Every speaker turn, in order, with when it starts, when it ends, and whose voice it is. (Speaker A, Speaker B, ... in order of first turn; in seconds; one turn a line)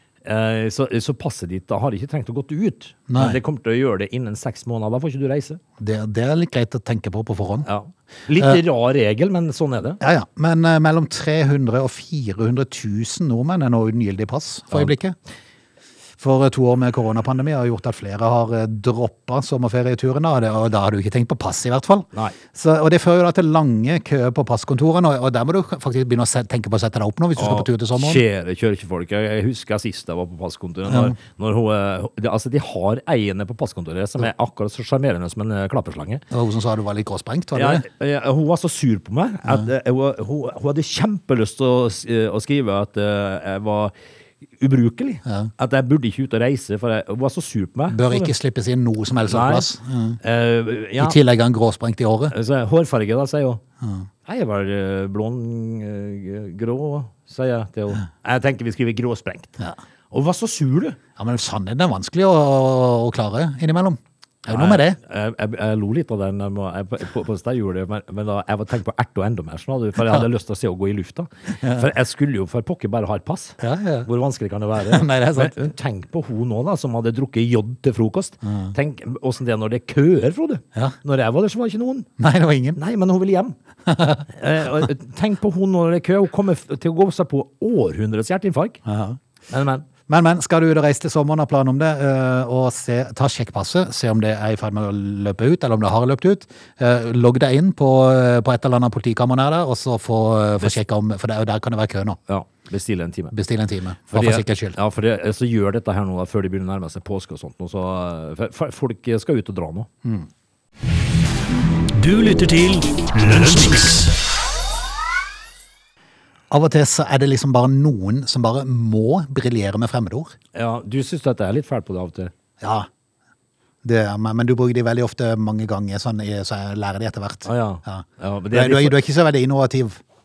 Speaker A: 0.2-5.6
Speaker B: 3.1-3.4
Speaker B: 5.8-7.7
Speaker A: 7.7-10.0
Speaker B: 10.0-15.2
Speaker B: 16.2-28.2
Speaker A: 27.4-36.2
Speaker B: 30.9-31.2
Speaker B: 36.3-37.9
Speaker A: 37.5-44.0
Speaker A: 44.6-48.3
Speaker B: 45.3-45.5
Speaker B: 47.9-50.2
Speaker A: 49.2-49.7
Speaker A: 50.2-51.2
Speaker B: 51.0-52.4
Speaker A: 52.3-53.6
Speaker B: 53.8-54.1
Speaker A: 54.2-59.6
Speaker A: 60.1-61.0
Speaker B: 61.2-65.0
Speaker A: 64.5-82.1
Speaker B: 71.6-71.9
Speaker B: 73.6-74.1
Speaker B: 74.8-75.6
Speaker B: 78.4-78.7
Speaker B: 82.2-82.8
Speaker A: 82.8-83.6
Speaker B: 83.9-84.3
Speaker A: 84.3-88.8
Speaker B: 88.9-89.2
Speaker A: 89.5-89.9
Speaker B: 90.1-102.2
Speaker A: 102.3-103.3
Speaker B: 103.3-104.8
Speaker A: 104.1-109.9
Speaker C: 112.0-114.2
Speaker B: 116.5-120.3
Speaker A: 120.5-122.3
Speaker B: 122.6-122.9
Speaker B: 123.8-130.0
Speaker A: 127.5-129.0